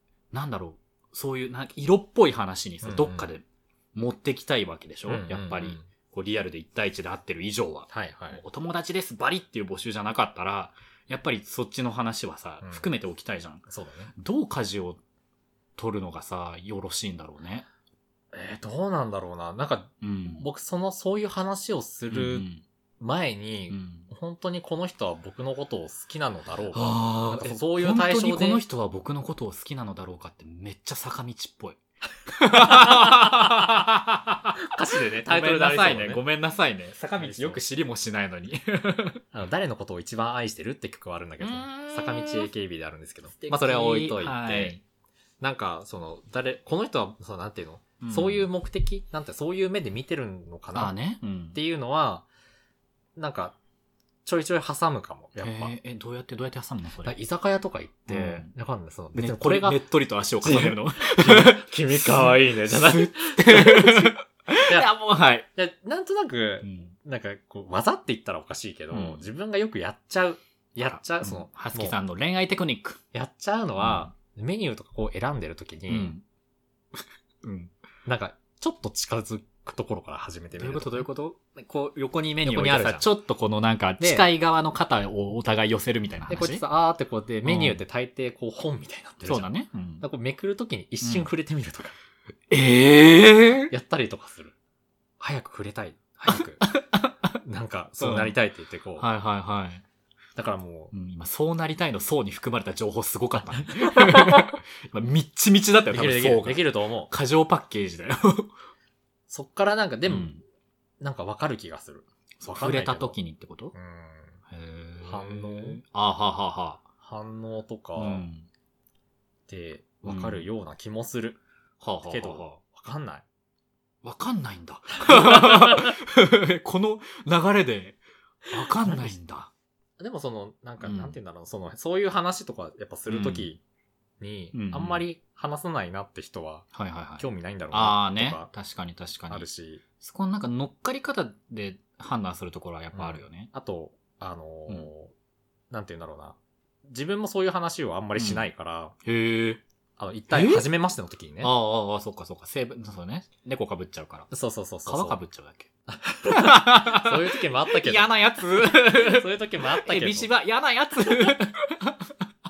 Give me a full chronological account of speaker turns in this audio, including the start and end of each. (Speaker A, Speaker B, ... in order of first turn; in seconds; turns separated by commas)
Speaker A: 0.3-15.0, Speaker B: 2.8-3.3, Speaker B: 5.1-5.9, Speaker B: 7.9-8.4, Speaker B: 12.6-12.9, Speaker B: 13.7-14.1, Speaker A: 15.8-17.7, Speaker B: 18.3-22.5, Speaker A: 20.0-20.4, Speaker A: 22.1-22.6, Speaker B: 23.0-28.6, Speaker A: 23.7-24.1, Speaker A: 26.7-34.6, Speaker B: 32.6-33.6, Speaker B: 34.6-36.2, Speaker A: 35.3-39.2, Speaker B: 37.2-37.6, Speaker B: 39.3-44.8, Speaker A: 41.4-42.5, Speaker A: 43.3-44.8, Speaker B: 45.4-51.0, Speaker A: 48.0-48.5, Speaker A: 50.7-51.6, Speaker B: 51.5-52.3, Speaker B: 53.2-53.6, Speaker B: 54.3-55.7, Speaker A: 55.4-57.2, Speaker B: 57.0-59.8, Speaker A: 58.1-58.5, Speaker A: 59.1-65.5, Speaker B: 60.4-64.1, Speaker B: 64.7-64.9, Speaker B: 65.5-72.0, Speaker A: 66.6-67.0, Speaker A: 68.9-69.2, Speaker A: 70.8-73.0, Speaker B: 73.1-76.1, Speaker A: 73.8-74.1, Speaker A: 75.9-76.2, Speaker A: 77.0-77.7, Speaker B: 78.1-81.1, Speaker A: 80.6-86.6, Speaker B: 82.4-83.1, Speaker B: 84.0-84.3, Speaker B: 86.3-92.0, Speaker A: 87.5-87.8, Speaker A: 89.2-90.0, Speaker A: 91.0-91.3, Speaker A: 92.5-93.7, Speaker B: 93.7-94.5, Speaker B: 95.2-96.7, Speaker A: 96.3-97.2, Speaker B: 97.4-99.1, Speaker A: 98.0-98.4, Speaker A: 99.0-99.8, Speaker B: 100.4-100.9, Speaker A: 100.9-108.5, Speaker B: 103.5-104.5, Speaker B: 105.9-107.1, Speaker B: 109.3-110.4, Speaker A: 110.1-110.4, Speaker B: 111.0-113.2, Speaker A: 112.4-113.7, Speaker B: 113.7-114.4, Speaker A: 114.5-116.9, Speaker B: 115.0-115.8, Speaker B: 117.0-118.3, Speaker A: 118.0-118.5, Speaker B: 119.5-121.4, Speaker A: 120.0-120.5, Speaker A: 121.8-122.6, Speaker B: 122.0-123.2, Speaker A: 124.0-128.0, Speaker B: 125.0-125.9, Speaker A: 128.5-129.5, Speaker B: 128.7-129.1, Speaker B: 130.0-133.6, Speaker A: 130.8-131.2, Speaker A: 133.1-133.5, Speaker B: 134.2-136.7, Speaker A: 134.5-135.1, Speaker A: 136.7-139.5, Speaker B: 137.2-138.5, Speaker B: 139.3-139.8, Speaker A: 140.0-143.5, Speaker B: 142.9-145.1, Speaker B: 145.7-148.9, Speaker A: 148.2-148.4, Speaker A: 149.0-149.6, Speaker B: 150.0-151.5, Speaker A: 150.3-150.7, Speaker A: 151.4-154.3, Speaker B: 154.3-155.2, Speaker A: 154.9-155.7, Speaker B: 155.9-158.1, Speaker A: 156.3-162.1, Speaker B: 158.7-160.3